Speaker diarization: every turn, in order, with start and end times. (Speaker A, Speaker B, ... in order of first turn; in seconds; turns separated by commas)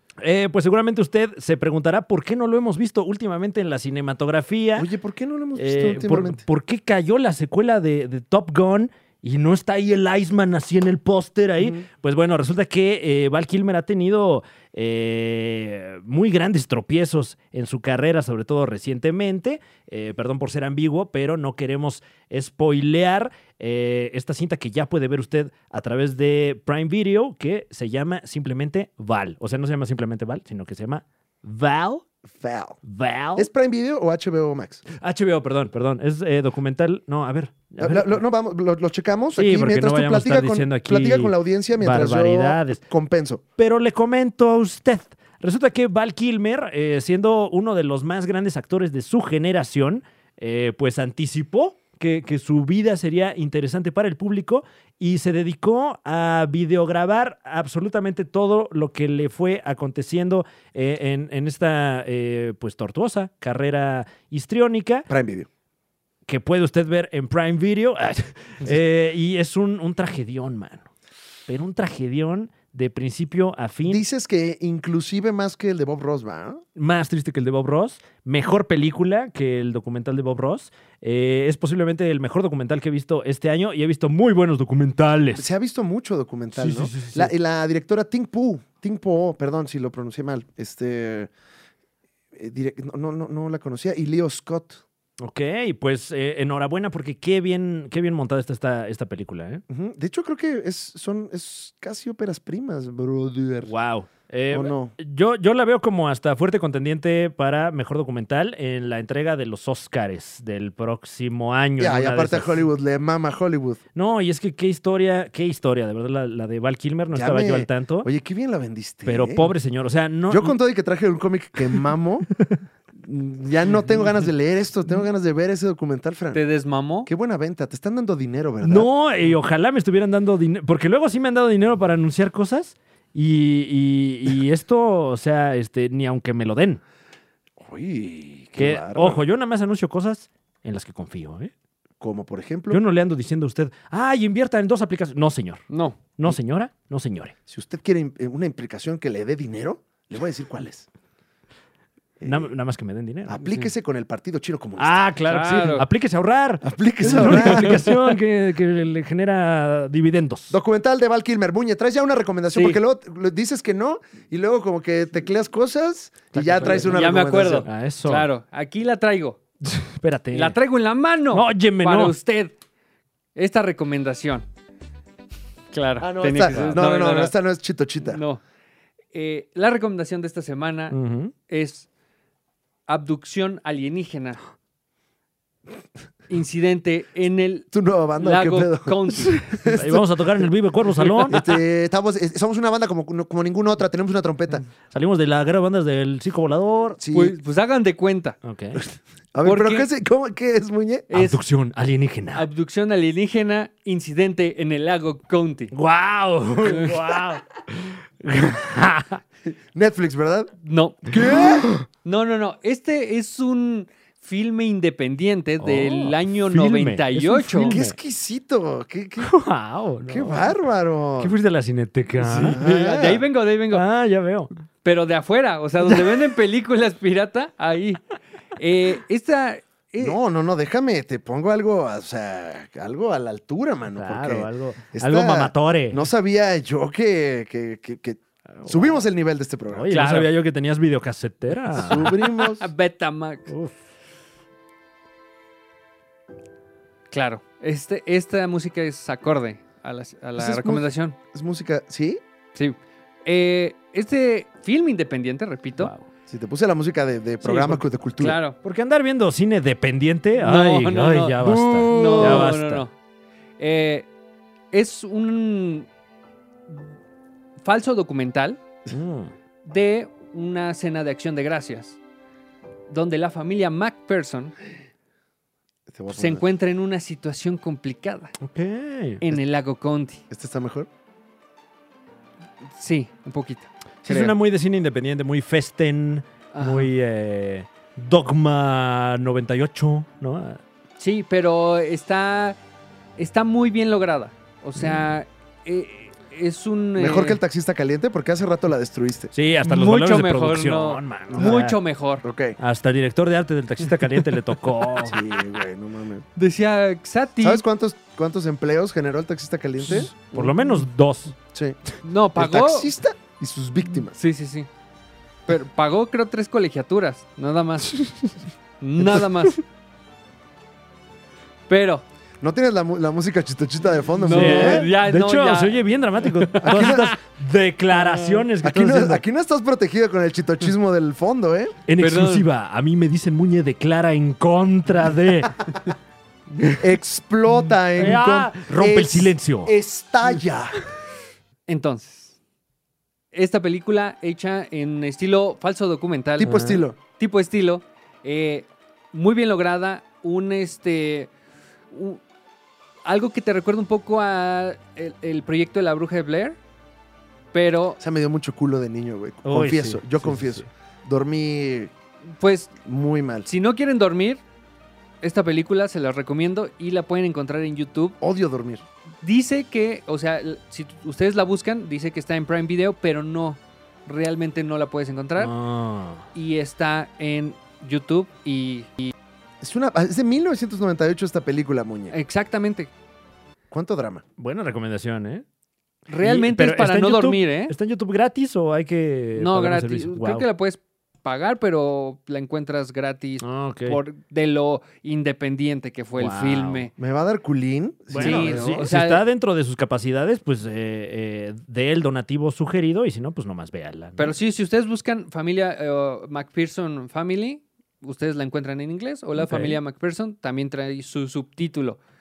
Speaker A: 0.2-4.9, Speaker B: 4.8-6.4, Speaker A: 5.5-32.0, Speaker B: 32.3-32.8, Speaker A: 32.8-33.5, Speaker B: 33.4-34.8, Speaker A: 34.9-38.2, Speaker B: 37.8-43.4, Speaker A: 39.3-42.8, Speaker A: 43.6-65.1, Speaker B: 65.1-65.5, Speaker A: 66.3-70.9, Speaker A: 71.5-74.0, Speaker B: 73.9-76.6, Speaker A: 76.8-85.5, Speaker B: 85.3-91.3, Speaker A: 86.5-87.3, Speaker B: 92.3-94.8, Speaker A: 95.2-99.6, Speaker B: 99.7-103.7, Speaker A: 103.6-112.6, Speaker B: 104.5-104.9, Speaker B: 111.8-113.8, Speaker A: 113.9-118.1, Speaker B: 117.1-119.5, Speaker A: 119.0-120.5, Speaker B: 120.3-122.3, Speaker B: 123.0-126.4, Speaker C: 126.3-127.1, Speaker B: 127.0-128.9, Speaker A: 128.6-136.8, Speaker B: 137.6-139.2, Speaker A: 138.6-141.5, Speaker B: 142.0-142.8, Speaker A: 142.7-145.6, Speaker C: 145.7-146.0, Speaker A: 146.2-147.3, Speaker B: 147.5-150.9, Speaker B: 152.2-152.5, Speaker A: 152.2-153.4, Speaker B: 153.3-155.1, Speaker A: 154.8-160.6, Speaker C: 155.2-155.8, Speaker B: 156.6-157.8, Speaker C: 157.3-158.0, Speaker B: 160.5-167.7, Speaker C: 162.5-162.8, Speaker A: 166.3-166.9, Speaker C: 166.6-169.4, Speaker A: 167.6-168.3, Speaker A: 169.6-170.6, Speaker C: 170.3-172.5, Speaker A: 171.3-172.1, Speaker C: 173.3-174.4, Speaker C: 175.7-177.3, Speaker B: 176.0-178.2, Speaker A: 176.4-176.8, Speaker C: 178.0-178.4, Speaker C: 179.1-180.9, Speaker A: 180.9-181.3, Speaker C: 181.5-181.9, Speaker C: 182.9-184.4, Speaker C: 186.3-189.4, Speaker B: 187.7-190.0, Speaker A: 189.5-191.4, Speaker B: 191.3-194.6, Speaker C: 191.3-191.5, Speaker A: 194.9-197.0, Speaker B: 197.0-197.3, Speaker C: 197.1-198.4, Speaker A: 198.4-198.8, Speaker B: 199.3-201.1, Speaker C: 199.4-199.9, Speaker C: 201.1-201.4, Speaker A: 201.1-202.5, Speaker C: 202.3-205.7, Speaker A: 205.7-209.2, Speaker C: 206.6-207.0, Speaker B: 209.5-210.5, Speaker C: 210.6-211.2, Speaker B: 211.0-211.7, Speaker C: 212.0-217.8, Speaker A: 215.6-217.9, Speaker B: 217.6-219.3, Speaker A: 219.2-220.6, Speaker B: 220.1-221.3, Speaker A: 221.2-222.6, Speaker C: 222.2-223.8, Speaker B: 222.5-223.2, Speaker A: 223.7-224.5, Speaker C: 224.8-230.2, Speaker A: 225.9-226.1, Speaker B: 230.0-239.9, Speaker A: 233.9-236.0, Speaker A: 238.5-239.0, Speaker A: 239.7-242.1, Speaker C: 239.9-240.3, Speaker B: 241.7-242.7, Speaker C: 241.8-243.5, Speaker A: 243.5-243.8, Speaker C: 247.1-251.2, Speaker B: 250.3-252.2, Speaker C: 252.6-255.9, Speaker A: 255.8-256.1, Speaker B: 256.3-258.4, Speaker C: 257.4-258.6, Speaker A: 258.6-262.8, Speaker C: 260.4-262.9, Speaker B: 261.6-262.5, Speaker C: 263.6-264.1, Speaker C: 264.7-265.9, Speaker C: 267.6-268.6, Speaker A: 268.9-269.3, Speaker C: 269.6-272.0, Speaker C: 272.9-274.5, Speaker B: 275.9-276.4, Speaker C: 276.1-278.3, Speaker A: 278.4-279.2, Speaker C: 279.2-280.2, Speaker B: 280.3-280.9, Speaker C: 282.8-284.3, Speaker A: 284.0-290.6, Speaker C: 286.5-286.9, Speaker C: 291.0-292.6, Speaker C: 293.2-297.4, Speaker A: 294.8-295.1, Speaker B: 296.9-299.3, Speaker A: 299.3-301.8, Speaker C: 299.6-302.2, Speaker B: 301.3-301.6, Speaker B: 302.2-302.6, Speaker A: 302.6-305.2, Speaker C: 303.8-304.3, Speaker B: 305.0-306.2, Speaker C: 306.4-307.6, Speaker B: 307.4-310.6, Speaker A: 309.8-311.3, Speaker B: 311.5-311.8, Speaker C: 312.0-312.9, Speaker B: 312.4-314.1, Speaker C: 314.1-314.7, Speaker C: 315.5-318.2, Speaker C: 318.8-319.6, Speaker C: 321.7-322.0, Speaker B: 322.4-324.9, Speaker C: 324.2-327.1, Speaker A: 324.3-329.2, Speaker B: 326.6-327.1, Speaker C: 327.9-328.5, Speaker B: 328.6-331.8, Speaker A: 331.9-335.8, Speaker C: 332.0-332.5, Speaker B: 336.8-340.8, Speaker A: 338.0-339.7, Speaker C: 341.7-342.4, Speaker C: 343.3-351.3, Speaker B: 346.4-347.0, Speaker A: 346.4-346.8, Speaker C: 351.9-352.2, Speaker C: 353.0-356.6, Speaker C: 357.5-358.0, Speaker B: 358.0-361.9, Speaker A: 359.4-360.7, Speaker C: 362.4-362.8, Speaker B: 362.8-363.5, Speaker C: 363.4-364.4, Speaker C: 365.2-368.2, Speaker B: 368.2-368.8, Speaker C: 369.2-375.5, Speaker A: 375.4-376.3, Speaker C: 376.3-379.1, Speaker B: 379.6-382.1, Speaker C: 382.1-382.9, Speaker B: 383.7-384.2, Speaker A: 384.4-385.4, Speaker C: 386.1-387.7, Speaker A: 386.2-390.5, Speaker C: 389.4-396.9, Speaker A: 393.4-394.0, Speaker A: 396.2-396.9, Speaker B: 397.0-398.9, Speaker A: 398.1-404.3, Speaker C: 398.1-399.2, Speaker C: 404.2-412.0, Speaker A: 409.4-409.8